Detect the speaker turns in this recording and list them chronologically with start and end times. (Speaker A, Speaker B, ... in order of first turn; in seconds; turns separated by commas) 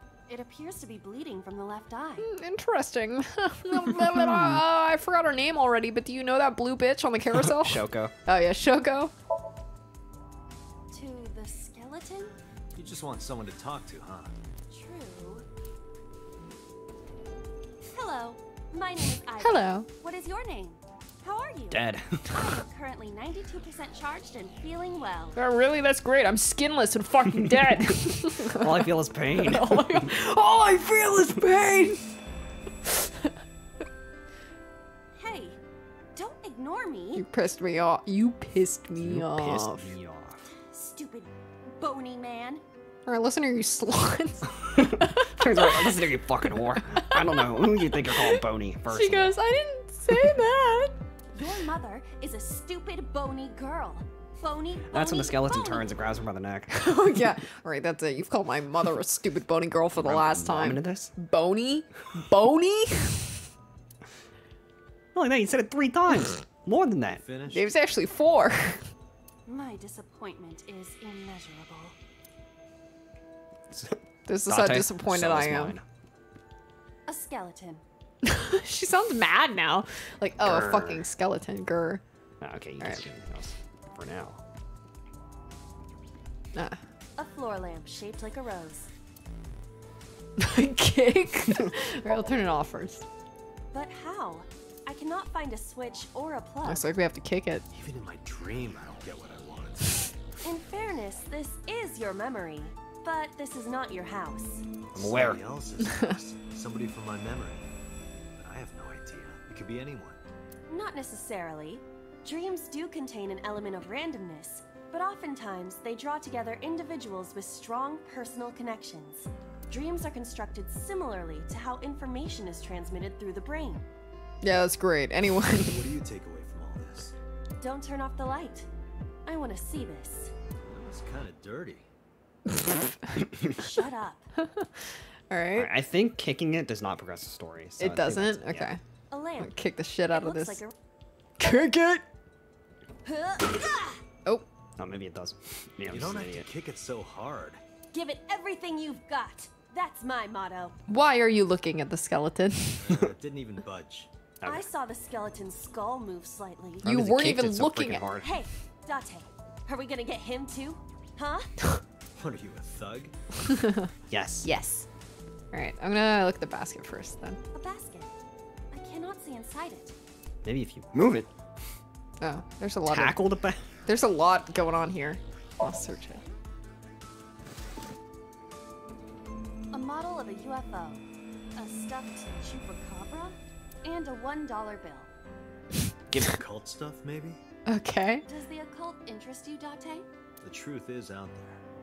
Speaker A: 0.3-2.3, Speaker B: 2.2-9.1, Speaker C: 4.1-4.6, Speaker C: 7.3-8.1, Speaker A: 10.9-12.3, Speaker D: 12.8-14.3, Speaker A: 14.7-15.5, Speaker A: 17.8-25.4, Speaker B: 19.4-19.9, Speaker C: 21.7-22.6, Speaker B: 25.4-32.1, Speaker C: 27.3-30.1, Speaker B: 32.9-33.3, Speaker A: 35.1-35.6, Speaker A: 36.2-37.2, Speaker B: 37.1-39.9, Speaker C: 39.0-40.5, Speaker A: 40.6-42.6, Speaker B: 43.1-46.1, Speaker C: 44.6-49.4, Speaker B: 46.8-51.0, Speaker A: 51.3-55.9, Speaker C: 54.9-57.0, Speaker B: 56.7-63.4, Speaker C: 60.0-61.1, Speaker C: 65.1-67.2, Speaker D: 67.1-67.7, Speaker B: 67.5-68.9, Speaker A: 69.5-72.0, Speaker C: 73.7-75.8, Speaker B: 74.3-75.8, Speaker A: 77.1-77.8, Speaker B: 78.2-82.0, Speaker C: 80.4-81.1, Speaker C: 82.4-84.4, Speaker B: 86.5-86.8, Speaker A: 87.2-88.9, Speaker B: 90.4-93.1, Speaker A: 93.7-96.9, Speaker B: 96.6-97.7, Speaker D: 97.7-100.1, Speaker A: 100.4-104.7, Speaker D: 104.9-107.7, Speaker C: 105.0-105.4, Speaker B: 105.8-106.1, Speaker D: 108.4-110.2, Speaker A: 110.7-123.8, Speaker B: 124.4-125.8, Speaker D: 125.6-127.1, Speaker A: 127.6-128.7, Speaker A: 129.3-130.3, Speaker D: 130.6-131.9, Speaker A: 133.5-134.3, Speaker B: 134.4-134.7, Speaker B: 135.3-135.7, Speaker C: 135.6-138.7, Speaker B: 137.8-138.8, Speaker A: 139.1-139.6, Speaker B: 139.4-140.6, Speaker A: 140.1-140.7, Speaker B: 141.4-142.0, Speaker A: 143.0-144.0, Speaker C: 144.8-146.5, Speaker D: 145.9-147.6, Speaker A: 147.9-150.8, Speaker B: 150.9-153.1, Speaker D: 152.8-154.1, Speaker C: 154.4-154.7, Speaker A: 154.4-156.8, Speaker C: 156.8-158.4, Speaker B: 156.8-158.1, Speaker A: 158.2-161.5, Speaker D: 162.2-163.2, Speaker B: 163.5-163.9, Speaker C: 164.1-164.5, Speaker B: 164.4-164.9, Speaker B: 165.5-167.4, Speaker A: 167.5-168.1, Speaker A: 168.7-169.9, Speaker C: 170.4-171.3, Speaker B: 172.2-173.2, Speaker C: 172.9-173.6, Speaker B: 173.9-176.2, Speaker A: 179.7-181.0, Speaker A: 181.6-185.1, Speaker C: 186.1-186.4, Speaker D: 186.3-187.4, Speaker B: 187.7-188.2, Speaker A: 188.2-190.1, Speaker D: 190.4-191.6